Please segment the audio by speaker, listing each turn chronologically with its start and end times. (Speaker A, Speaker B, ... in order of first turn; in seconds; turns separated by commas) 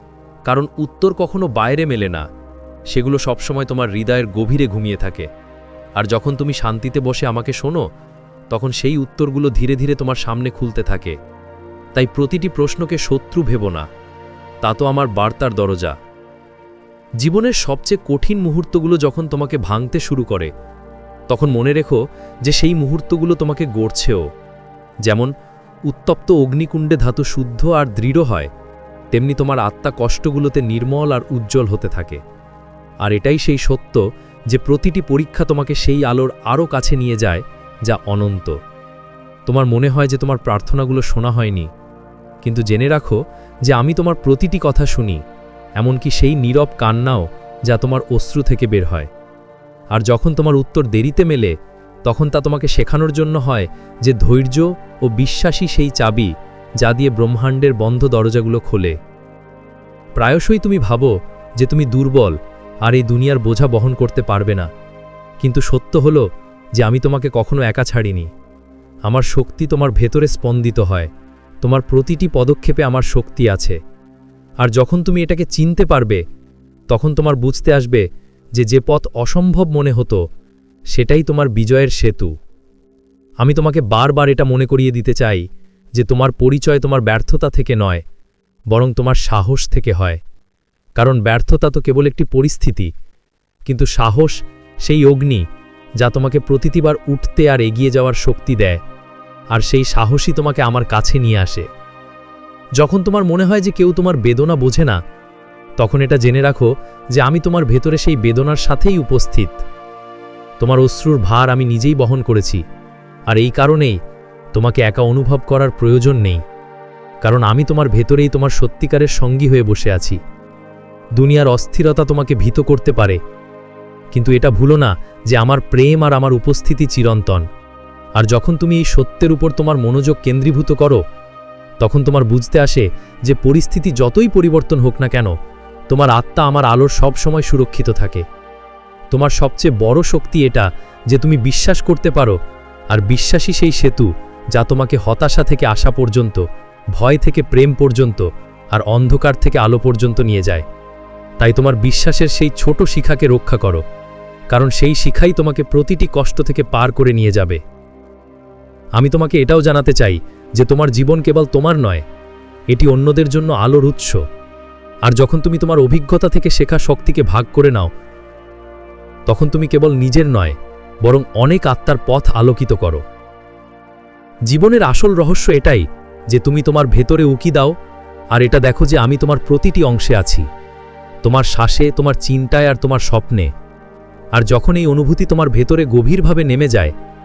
Speaker A: 0.5-2.2, Speaker A: 2.9-5.3, Speaker A: 6.0-7.8, Speaker A: 8.5-11.1, Speaker A: 11.9-13.9, Speaker A: 14.6-15.9, Speaker A: 17.2-20.5, Speaker A: 21.3-24.2, Speaker A: 25.0-25.3, Speaker A: 25.9-28.5, Speaker A: 29.1-32.2, Speaker A: 33.0-38.5, Speaker A: 39.5-41.7, Speaker A: 42.4-45.2, Speaker A: 45.8-49.1, Speaker A: 49.9-51.5, Speaker A: 52.0-59.0, Speaker A: 60.2-64.7, Speaker A: 65.4-66.2, Speaker A: 66.8-68.3, Speaker A: 69.1-71.1, Speaker A: 71.6-73.8, Speaker A: 74.6-76.2, Speaker A: 76.9-78.0, Speaker A: 78.5-80.2, Speaker A: 80.9-82.3, Speaker A: 83.4-88.0, Speaker A: 88.7-90.2, Speaker A: 91.0-92.9, Speaker A: 93.7-95.5, Speaker A: 96.0-98.8, Speaker A: 99.5-101.7, Speaker A: 102.8-105.0, Speaker A: 105.8-109.6, Speaker A: 110.6-112.6, Speaker A: 113.3-114.0, Speaker A: 114.5-116.4, Speaker A: 117.2-120.2, Speaker A: 121.2-123.2, Speaker A: 124.1-127.5, Speaker A: 128.2-131.0, Speaker A: 131.8-135.3, Speaker A: 135.9-138.2, Speaker A: 139.1-142.4, Speaker A: 142.9-146.4, Speaker A: 146.9-150.7, Speaker A: 151.4-153.8, Speaker A: 154.5-157.6, Speaker A: 159.0-162.0, Speaker A: 162.7-164.2, Speaker A: 165.0-167.9, Speaker A: 169.3-173.0, Speaker A: 174.5-177.7, Speaker A: 178.3-180.5, Speaker A: 181.2-183.5, Speaker A: 184.3-186.9